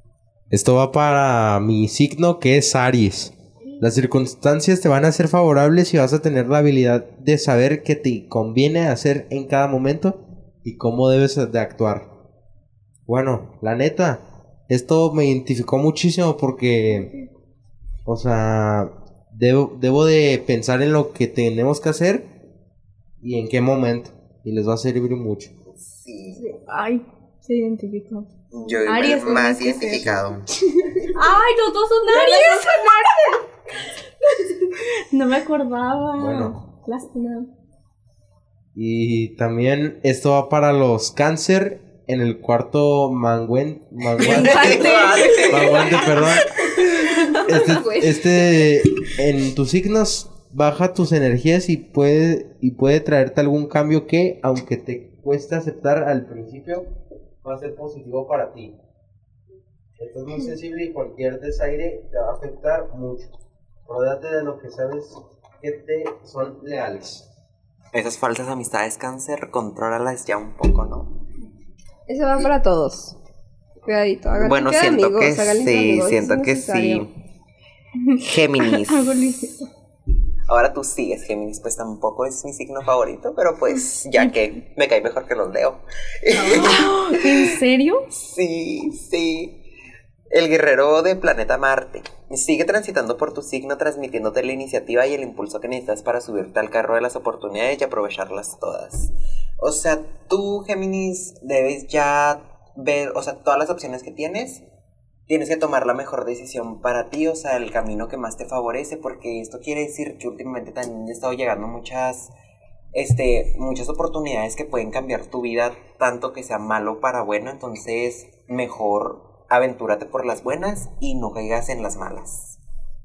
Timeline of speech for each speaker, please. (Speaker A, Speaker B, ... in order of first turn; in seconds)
Speaker A: 0.5-12.1, 13.1-17.1, 18.1-22.3, 23.2-25.6, 36.1-36.6, 38.7-46.5, 47.3-56.9, 57.4-58.7, 60.0-63.3, 63.9-67.2
Speaker B: 25.7-26.5, 28.5-30.5, 44.2-46.2, 67.9-71.1, 74.3-77.1, 78.1-79.1, 80.5-87.6, 88.1-89.6, 90.3-104.6, 105.3-112.3, 112.9-122.6
Speaker C: 26.6-28.3, 28.8-30.0, 31.1-32.9, 35.1-37.5, 78.1-79.5, 86.5-88.0
Speaker D: 28.6-31.1, 32.1-33.4, 44.2-46.2, 46.8-48.7, 72.1-73.2, 73.8-77.0